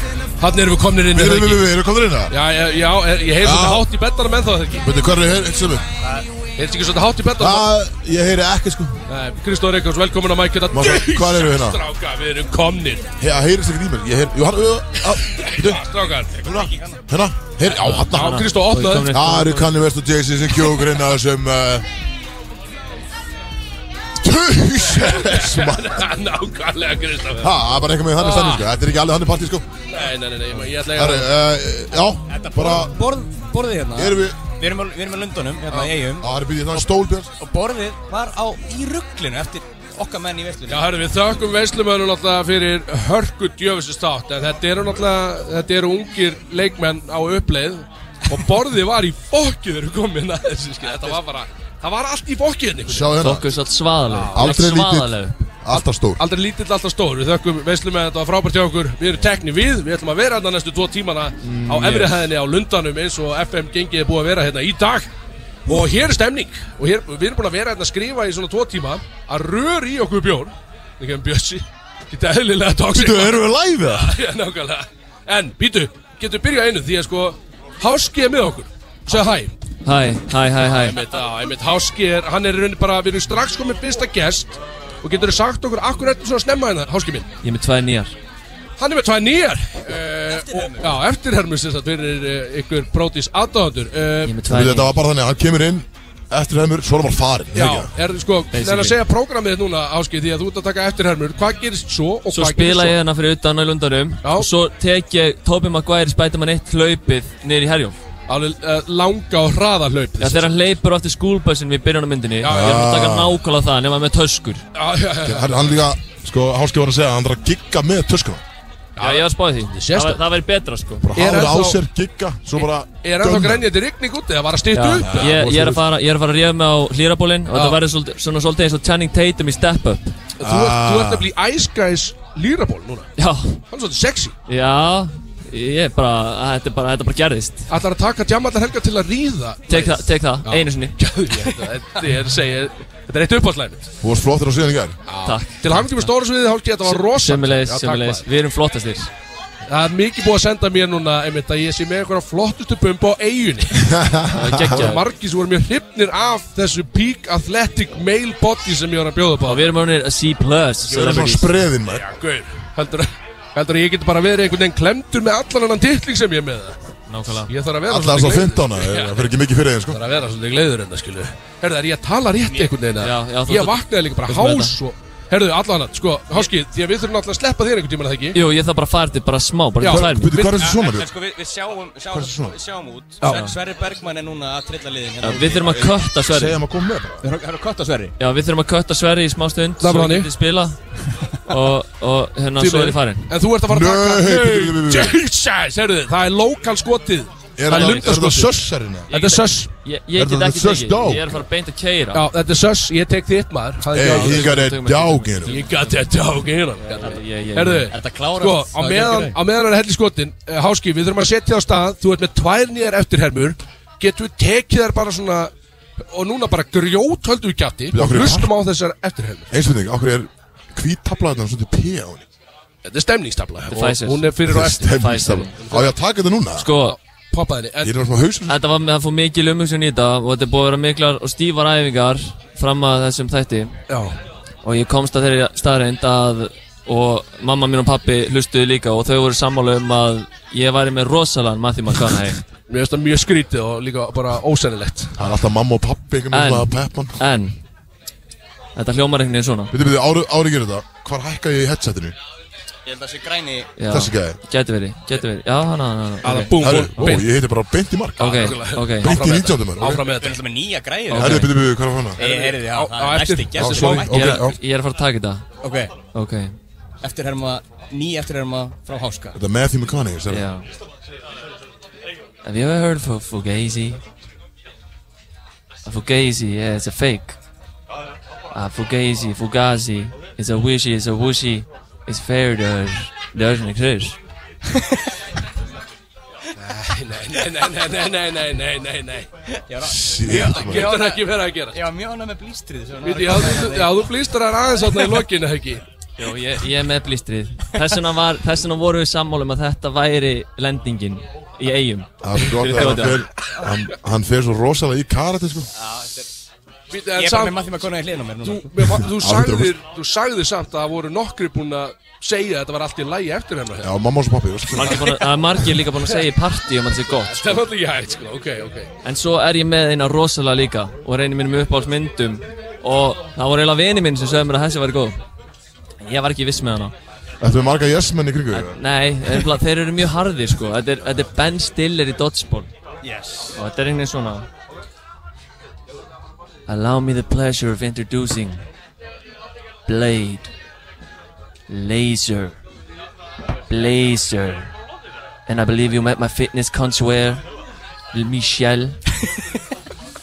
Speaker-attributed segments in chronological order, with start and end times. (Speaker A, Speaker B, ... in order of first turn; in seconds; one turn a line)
Speaker A: 0.4-1.7
Speaker B: 1.1-2.3
Speaker A: 2.3-4.9
Speaker B: 3.4-3.9
Speaker B: 4.8-5.9
Speaker A: 6.6-7.7
Speaker B: 7.4-9.0
Speaker A: 9.1-13.1
Speaker B: 10.7-11.8
Speaker B: 13.2-15.8
Speaker A: 15.3-16.3
Speaker C: 16.4-17.0
Speaker B: 16.4-18.5
Speaker A: 17.9-19.1
Speaker D: 17.9-19.7
Speaker B: 19.1-21.9
Speaker B: 24.2-26.0
Speaker A: 24.9-27.5
Speaker B: 27.4-29.7
Speaker A: 28.2-28.6
Speaker A: 29.9-31.3
Speaker B: 30.9-33.0
Speaker C: 32.3-36.9
Speaker B: 34.0-34.4
Speaker B: 36.2-37.3
Speaker C: 37.4-40.9
Speaker A: 40.7-53.1
Speaker B: 52.9-53.5
Speaker D: 53.2-55.4
Speaker A: 54.1-54.6
Speaker B: 54.3-56.2
Speaker A: 55.7-65.1
Speaker D: 61.4-62.2
Speaker A: 65.7-79.5
Speaker B: 72.9-74.1
Speaker D: 79.8-81.0
Speaker A: 80.6-87.3
Speaker D: 87.4-88.1
Speaker A: 88.8-94.3
Speaker C: 89.9-91.0
Speaker D: 94.2-94.9
Speaker B: 94.5-97.9
Speaker A: 97.5-103.0
Speaker D: 98.5-99.0
Speaker D: 102.3-108.0
Speaker A: 108.3-110.5
Speaker D: 110.2-114.6
Speaker A: 112.4-112.9
Speaker B: 112.4-113.4
Speaker A: 114.8-115.8
Speaker B: 115.2-118.4
Speaker A: 119.0-120.2
Speaker D: 119.0-121.1
Speaker B: 121.0-123.7
Speaker A: 121.2-121.8
Speaker A: 122.5-125.3
Speaker D: 124.7-130.1
Speaker B: 125.0-125.8
Speaker A: 127.5-127.8
Speaker A: 130.4-133.1
Speaker B: 130.4-131.3
Speaker D: 133.2-133.6
Speaker A: 133.7-134.3
Speaker D: 134.5-137.7
Speaker A: 137.7-143.9
Speaker D: 139.7-140.9
Speaker B: 144.0-145.0
Speaker A: 145.1-148.2
Speaker D: 145.2-146.1
Speaker D: 146.8-149.1
Speaker A: 149.7-153.8
Speaker B: 153.8-154.8
Speaker D: 154.3-155.0
Speaker A: 154.7-159.7
Speaker D: 159.4-161.6
Speaker B: 160.9-162.0
Speaker A: 161.9-166.8
Speaker D: 167.1-167.5
Speaker A: 167.5-169.3
Speaker B: 167.9-170.0
Speaker A: 169.9-178.4
Speaker C: 172.4-172.7
Speaker D: 173.0-174.8
Speaker D: 178.3-180.4
Speaker A: 179.8-180.6
Speaker B: 179.8-181.1
Speaker C: 180.6-186.0
Speaker B: 182.1-182.6
Speaker A: 183.2-183.5
Speaker D: 183.2-183.5
Speaker D: 185.2-186.6
Speaker B: 186.3-187.2
Speaker C: 187.2-188.1
Speaker D: 188.2-190.8
Speaker A: 189.8-190.3
Speaker D: 191.5-193.3
Speaker A: 192.6-198.5
Speaker B: 193.7-195.2
Speaker B: 197.6-199.1
Speaker D: 197.7-198.4
Speaker D: 199.1-202.3
Speaker A: 199.1-199.7
Speaker B: 200.1-201.4
Speaker A: 202.1-204.6
Speaker B: 203.9-205.5
Speaker D: 203.9-206.0
Speaker A: 205.4-215.5
Speaker D: 206.9-207.9
Speaker C: 207.9-209.3
Speaker A: 216.1-219.5
Speaker B: 217.9-218.5
Speaker B: 219.5-222.2
Speaker A: 222.8-225.0
Speaker D: 223.7-224.3
Speaker B: 224.4-226.7
Speaker D: 224.8-225.6
Speaker A: 225.6-225.9
Speaker D: 226.6-227.0
Speaker A: 226.8-227.9
Speaker B: 227.8-228.6
Speaker D: 228.5-233.8
Speaker A: 233.9-234.2
Speaker D: 234.6-242.4
Speaker A: 242.7-245.2
Speaker B: 245.2-247.2
Speaker D: 246.3-247.6
Speaker D: 248.8-249.7
Speaker B: 249.7-252.2
Speaker C: 252.9-253.7
Speaker D: 253.8-256.6
Speaker B: 253.9-254.4
Speaker A: 256.2-257.3
Speaker B: 256.6-260.0
Speaker D: 258.2-259.1
Speaker A: 258.2-260.4
Speaker C: 260.1-261.4
Speaker D: 261.1-261.5
Speaker B: 261.1-262.2
Speaker C: 262.1-264.4
Speaker A: 262.2-264.1
Speaker B: 263.6-264.6
Speaker D: 263.9-265.4
Speaker C: 265.6-265.9
Speaker D: 266.1-266.5
Speaker C: 267.0-269.4
Speaker B: 269.3-270.4
Speaker D: 270.3-270.6
Speaker D: 272.4-274.0
Speaker D: 275.8-277.4
Speaker D: 278.5-284.2
Speaker A: 286.6-289.3
Speaker C: 289.6-291.2
Speaker B: 289.8-290.9
Speaker A: 290.3-291.8
Speaker C: 291.7-294.1
Speaker A: 293.0-295.8
Speaker D: 296.2-303.2
Speaker B: 302.2-305.7
Speaker C: 305.8-306.2
Speaker A: 306.9-307.6
Speaker C: 307.1-308.7
Speaker A: 308.4-313.9
Speaker B: 309.1-309.8
Speaker B: 313.8-315.1
Speaker D: 314.8-317.6
Speaker A: 314.8-315.1
Speaker A: 317.1-318.9
Speaker D: 319.0-325.2
Speaker D: 326.0-326.9
Speaker B: 327.4-328.8
Speaker D: 328.5-332.7
Speaker C: 333.0-333.6
Speaker D: 333.6-334.4
Speaker D: 336.7-338.6
Speaker D: 339.9-340.5
Speaker D: 341.7-342.6
Speaker D: 343.7-344.7
Speaker D: 345.5-347.4
Speaker D: 348.1-349.0